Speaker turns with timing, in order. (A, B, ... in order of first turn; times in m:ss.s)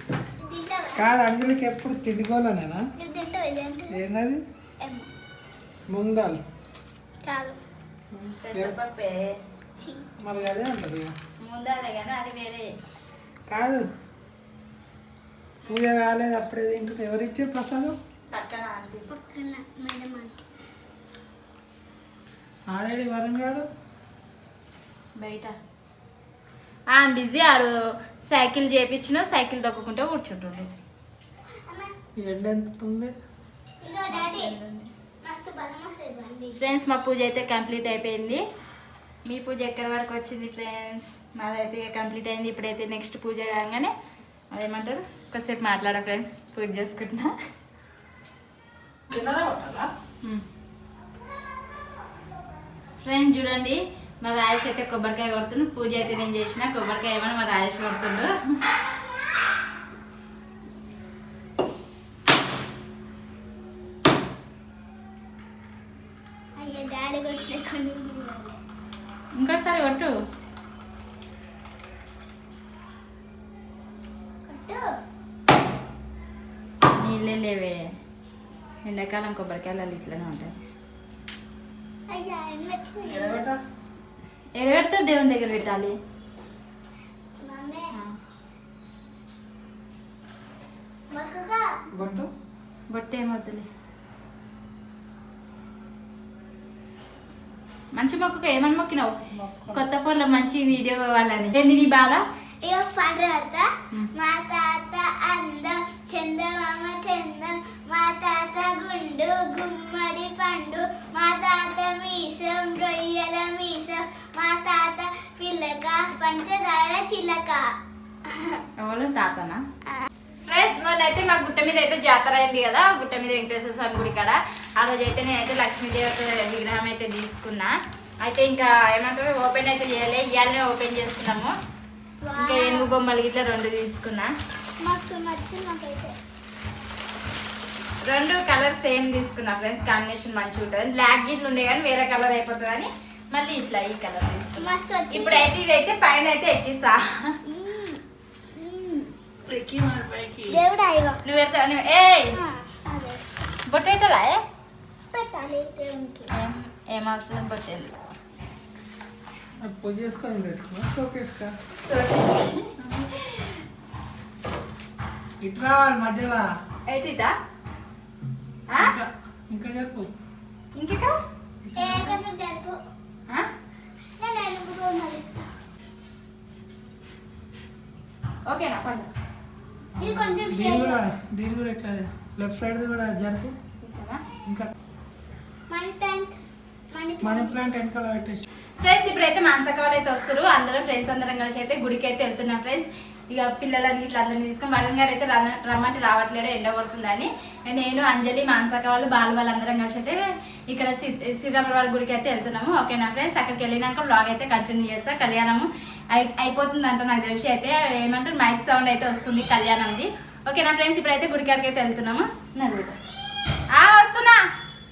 0:00.4-0:01.1 A
0:01.0-0:02.8 B
0:03.0-0:04.0 A
0:03.9-0:04.4 B
0:04.8-0:05.1 A
0:05.9-0:06.4 B
0:07.2-0:07.6 A
0:08.1-0:08.8 B
0:08.4-0:09.3 C
0:09.8-0:10.1 A
0:10.2-0:11.2 B
0:11.4-0:12.7 C
0:13.5-0:13.8 B
0:15.6-0:18.0 B
0:18.3-0:19.1 C
0:19.1-0:20.4 A
0:22.7-0:23.7 B
0:25.2-0:25.5 C
0:26.9-0:30.7 C
0:31.7-0:31.9 A
0:32.2-0:33.1 B
0:33.8-0:34.5 A
0:34.1-0:34.9 C
0:35.2-0:36.7 A
0:36.6-0:38.4 C
0:39.3-0:43.9 C
0:44.5-0:47.3 C
0:49.1-0:49.9 B
0:53.0-0:58.3 C
1:06.6-1:08.6 A
1:09.4-1:10.1 C
1:14.5-1:14.8 A
1:17.0-1:17.8 C
1:18.9-1:20.5 C
1:22.1-1:23.3 A
1:23.0-1:23.6 B
1:24.6-1:26.0 C
1:27.4-1:27.9 A
1:31.1-1:31.8 A
1:31.9-1:32.3 B
1:32.9-1:33.7 C
1:38.0-1:39.2 C
1:39.4-1:39.8 B
1:39.7-1:42.2 C
1:42.6-1:57.6 A
1:58.3-1:58.6 A
1:58.8-1:59.6 C
2:00.5-2:07.7 C
2:08.2-2:11.5 C
2:12.3-2:12.9 A
2:12.4-2:14.3 C
2:14.8-2:16.1 A
2:18.0-2:27.4 C
2:24.6-2:25.5 A
2:27.5-2:28.0 A
2:28.6-2:29.1 A
2:29.5-2:30.6 B
2:30.5-2:31.2 A
2:31.2-2:32.4 C
2:32.4-2:33.5 A
2:33.7-2:34.4 C
2:35.1-2:36.3 A
2:36.3-2:37.9 C
2:39.6-2:41.5 B
2:41.8-2:43.6 C
2:45.4-2:46.5 B
2:46.9-2:47.3 C
2:48.7-2:48.9 C
2:48.8-2:50.1 B
2:50.8-2:51.1 C
2:51.7-2:52.2 B
2:51.8-2:52.8 A
2:54.2-2:55.4 A
2:58.5-2:59.1 C
3:00.0-3:03.6 B
3:00.0-3:01.0 A
3:03.8-3:04.2 C
3:05.7-3:06.3 A
3:06.9-3:07.7 A
3:07.2-3:08.4 B
3:08.8-3:33.0 C
3:33.7-3:34.4 C